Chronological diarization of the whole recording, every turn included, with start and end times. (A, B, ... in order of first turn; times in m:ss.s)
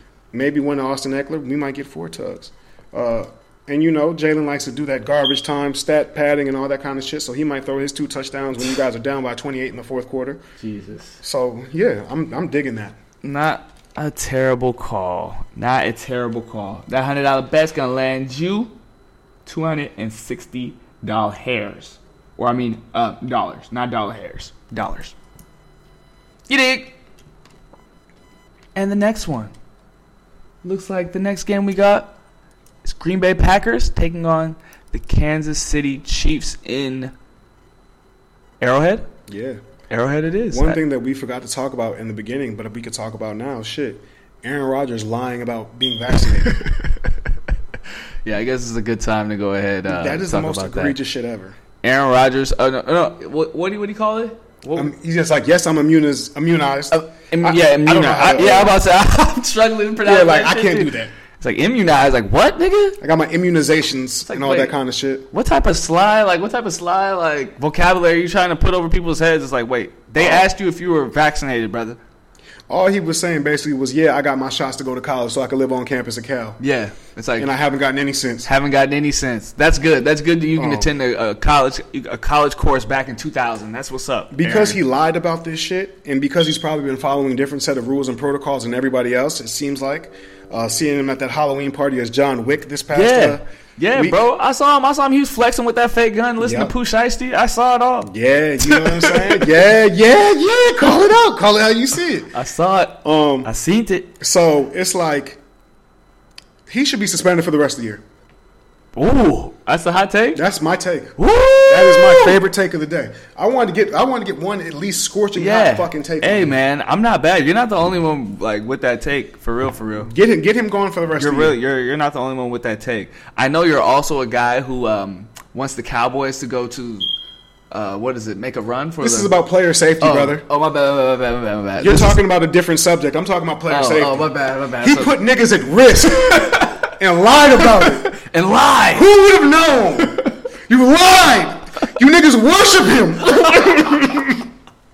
0:00.3-0:10.4 A
0:10.6-0:11.2 B
0:11.2-0:13.0 A
0:13.2-0:18.7 B
0:19.4-0:25.1 B
0:26.5-0:27.0 B
0:28.7-0:29.5 B
0:30.6-0:32.1 B
0:32.8-0:37.1 B
0:38.6-0:39.1 B
0:39.3-0:39.6 A
0:39.9-0:40.8 B
0:40.5-0:46.7 A
0:46.4-0:46.9 B
0:48.2-0:51.0 B
0:49.9-0:51.6 A
0:51.8-0:54.9 B
0:54.7-0:58.8 A
0:56.9-1:03.0 B
1:00.0-1:01.1 A
1:03.0-1:05.3 A
1:04.2-1:04.7 B
1:05.3-1:12.0 B
1:10.2-1:10.5 A
1:12.7-1:16.6 A
1:16.6-1:17.5 B
1:17.4-1:18.5 A
1:18.4-1:24.8 B
1:20.6-1:20.9 A
1:24.3-1:34.3 A
1:32.9-1:39.5 B
1:36.4-1:36.7 A
1:38.0-1:42.3 A
1:42.3-1:44.1 B
1:43.0-1:43.5 A
1:44.2-1:45.4 A
1:46.7-1:48.0 A
1:49.0-1:50.4 B
1:50.3-1:56.6 A
1:51.2-1:52.4 B
1:55.4-2:00.1 B
2:00.0-2:01.6 A
2:01.2-2:07.1 B
2:07.7-2:09.3 B
2:09.0-2:10.4 A
2:10.0-2:12.2 B
2:11.8-2:18.1 A
2:13.7-2:15.1 B
2:16.3-2:16.9 B
2:17.6-2:19.1 B
2:18.9-2:24.5 A
2:20.1-2:20.3 B